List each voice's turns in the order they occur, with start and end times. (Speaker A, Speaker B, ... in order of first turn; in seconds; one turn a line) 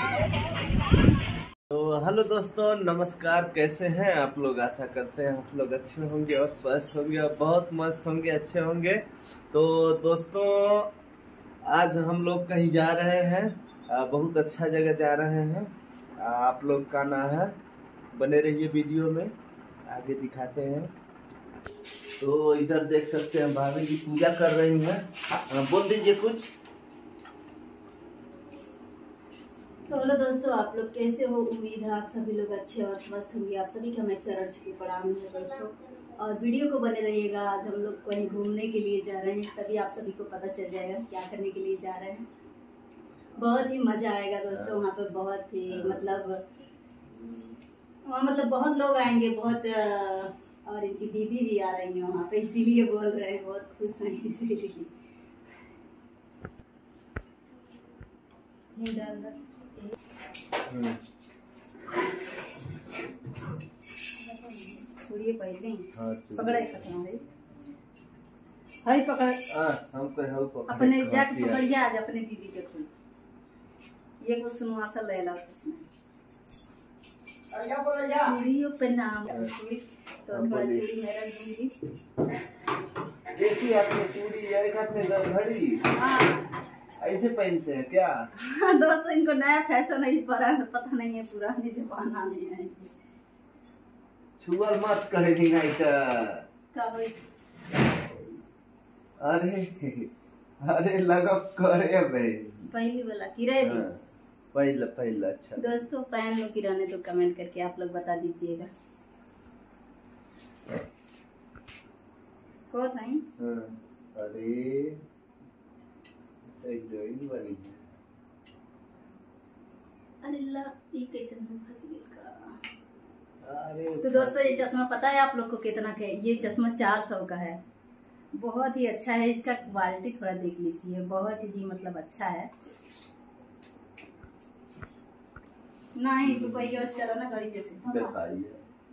Speaker A: 1.7-10.9
Speaker A: 11.6-17.5
Speaker A: 18.1-19.3
Speaker A: 19.9-20.9
Speaker A: 22.2-26.5
Speaker B: 29.9-42.3
Speaker B: 43.4-46.4
Speaker A: 44.5-44.8
Speaker A: 45.7-46.2
Speaker A: 47.2-47.5
Speaker B: 48.0-54.9
Speaker B: 58.7-59.4
Speaker A: 60.7-61.0
Speaker B: 64.4-67.2
Speaker A: 65.9-66.9
Speaker B: 68.8-69.4
Speaker A: 69.5-71.6
Speaker B: 70.7-72.9
Speaker B: 74.2-75.9
Speaker A: 77.5-78.2
Speaker B: 78.2-81.7
Speaker A: 80.3-80.8
Speaker A: 83.3-85.8
Speaker B: 85.9-86.4
Speaker A: 87.0-88.1
Speaker B: 88.4-92.9
Speaker A: 94.4-96.4
Speaker B: 96.7-97.2
Speaker A: 99.2-100.1
Speaker A: 100.6-102.7
Speaker B: 102.7-103.8
Speaker A: 103.6-104.0
Speaker A: 104.5-105.6
Speaker B: 105.6-108.7
Speaker B: 112.7-113.2
Speaker A: 113.4-115.0
Speaker A: 116.6-117.8
Speaker B: 120.2-122.6
Speaker A: 123.4-124.7
Speaker B: 124.0-127.6
Speaker B: 128.3-132.5
Speaker B: 135.9-137.9
Speaker A: 136.2-136.8
Speaker A: 137.8-138.6